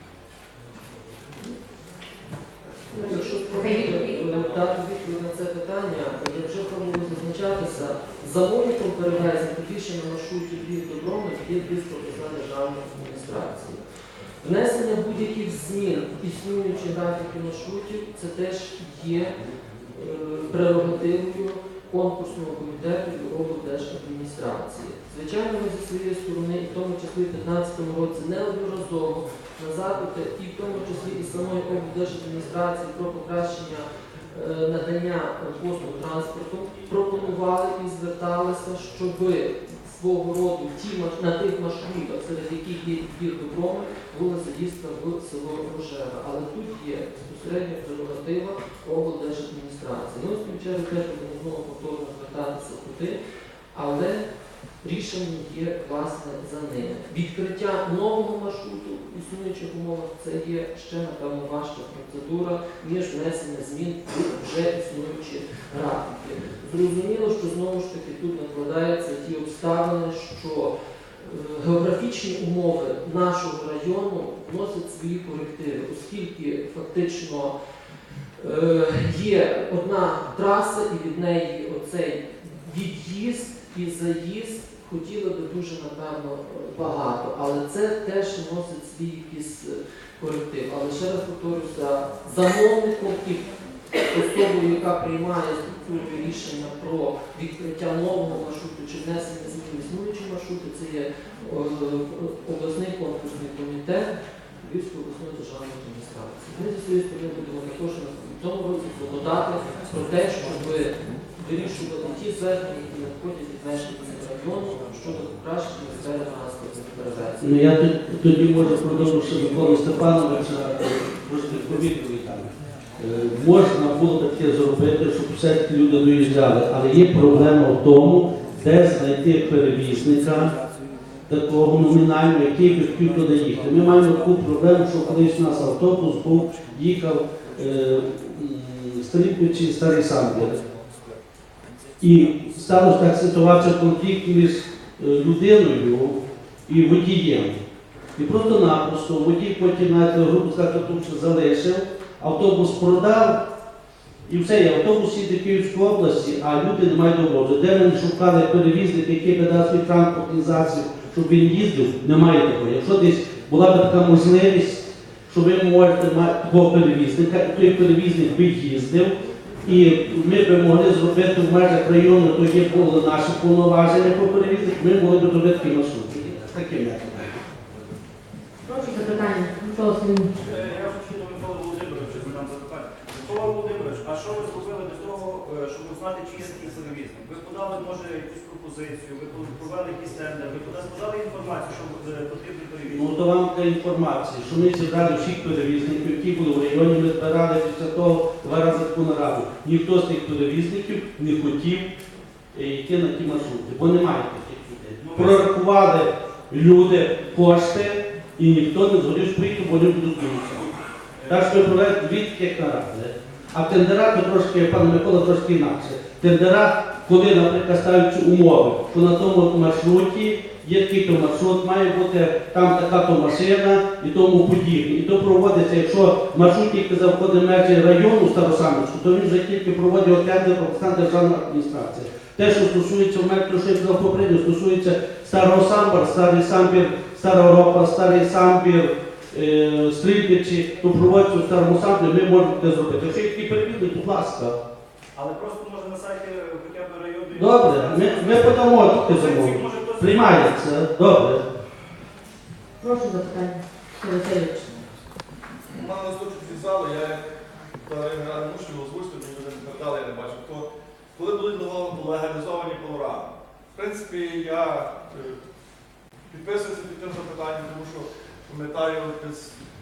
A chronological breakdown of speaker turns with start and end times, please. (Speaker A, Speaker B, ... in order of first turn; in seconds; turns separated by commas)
Speaker A: 2.9-4.4, Speaker B: 2.9-13.8, Speaker B: 14.4-19.4, Speaker B: 19.9-53.2, Speaker B: 53.7-54.3, Speaker B: 54.8-77.5, Speaker B: 78.4-93.5, Speaker B: 94.1-117.5, Speaker C: 117.4-130.5, Speaker C: 131.3-140.6, Speaker C: 142.0-147.6, Speaker C: 148.2-153.4, Speaker C: 154.3-177.3, Speaker A: 178.6-180.3, Speaker D: 180.4-193.1, Speaker C: 192.9-201.9, Speaker C: 202.5-210.7, Speaker D: 205.0-205.5, Speaker D: 211.2-211.7, Speaker C: 211.3-244.6, Speaker D: 245.1-250.6, Speaker C: 247.3-251.4, Speaker A: 252.8-254.7, Speaker E: 255.7-257.2, Speaker E: 257.8-265.4, Speaker E: 266.3-269.5